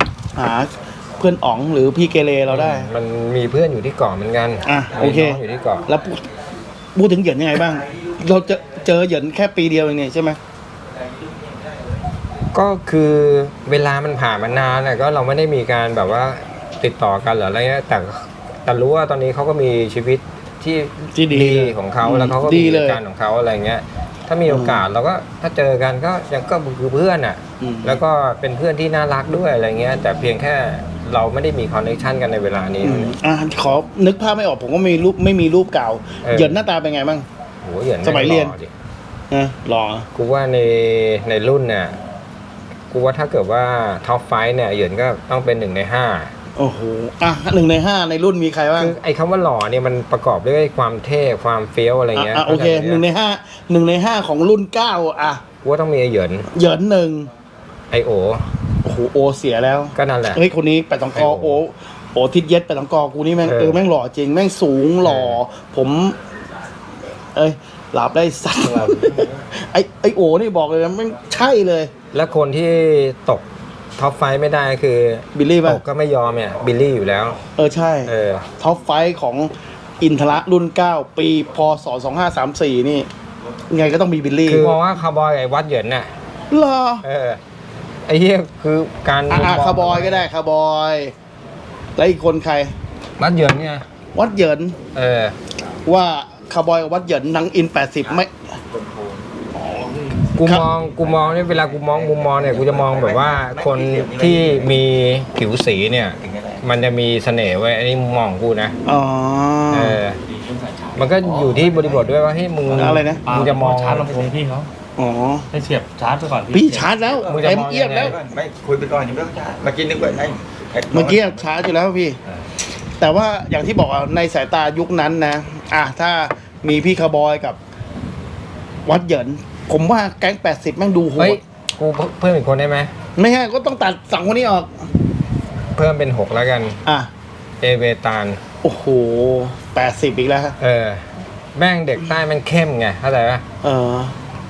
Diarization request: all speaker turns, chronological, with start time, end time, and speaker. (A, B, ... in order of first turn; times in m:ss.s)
0:00.4-0:02.9 A
0:02.5-0:05.9 B
0:04.7-0:06.2 A
0:07.0-0:10.4 A
0:12.5-0:33.2 B
0:21.1-0:23.0 A
0:24.5-0:24.8 A
0:27.6-0:28.0 A
0:32.8-0:37.3 A
0:36.2-0:36.6 B
0:37.6-0:38.7 B
0:38.0-0:38.6 A
0:39.3-0:40.1 A
0:40.2-0:42.0 B
0:42.9-0:46.3 B
0:46.6-0:49.0 A
0:48.8-0:53.0 B
0:52.2-0:55.4 A
0:55.6-0:56.5 B
0:56.5-0:57.3 A
0:57.9-0:58.5 B
0:58.8-1:06.2 A
1:00.0-1:00.4 B
1:01.2-1:01.6 B
1:03.4-1:03.8 B
1:05.0-1:05.4 B
1:07.4-1:11.9 A
1:12.1-1:17.4 B
1:15.3-1:15.8 A
1:17.6-1:23.1 A
1:18.1-1:18.5 B
1:23.7-1:24.8 A
1:24.4-1:26.1 B
1:26.5-1:27.0 A
1:27.0-1:27.4 B
1:28.0-1:30.3 B
1:29.3-1:31.1 A
1:32.0-1:32.7 A
1:33.2-1:33.9 B
1:34.2-1:34.8 A
1:34.9-1:35.4 B
1:35.9-1:38.6 A
1:38.7-1:39.3 C
1:40.4-1:48.7 B
1:41.0-1:44.8 C
1:46.2-1:46.6 C
1:48.8-1:50.0 A
1:49.7-1:50.2 B
1:50.3-1:52.1 C
1:51.0-1:54.2 B
1:52.7-1:53.2 A
1:53.1-1:54.7 D
1:55.0-1:55.5 A
1:55.5-1:57.1 D
1:56.5-1:58.2 A
1:57.0-2:01.5 C
1:57.3-1:58.2 B
2:00.9-2:02.2 A
2:03.0-2:07.6 A
2:08.9-2:11.4 A
2:11.2-2:12.9 B
2:13.2-2:14.9 A
2:15.8-2:16.8 B
2:16.8-2:17.1 A
2:17.6-2:18.4 B
2:18.6-2:20.6 A
2:20.6-2:23.4 B
2:23.6-2:24.2 A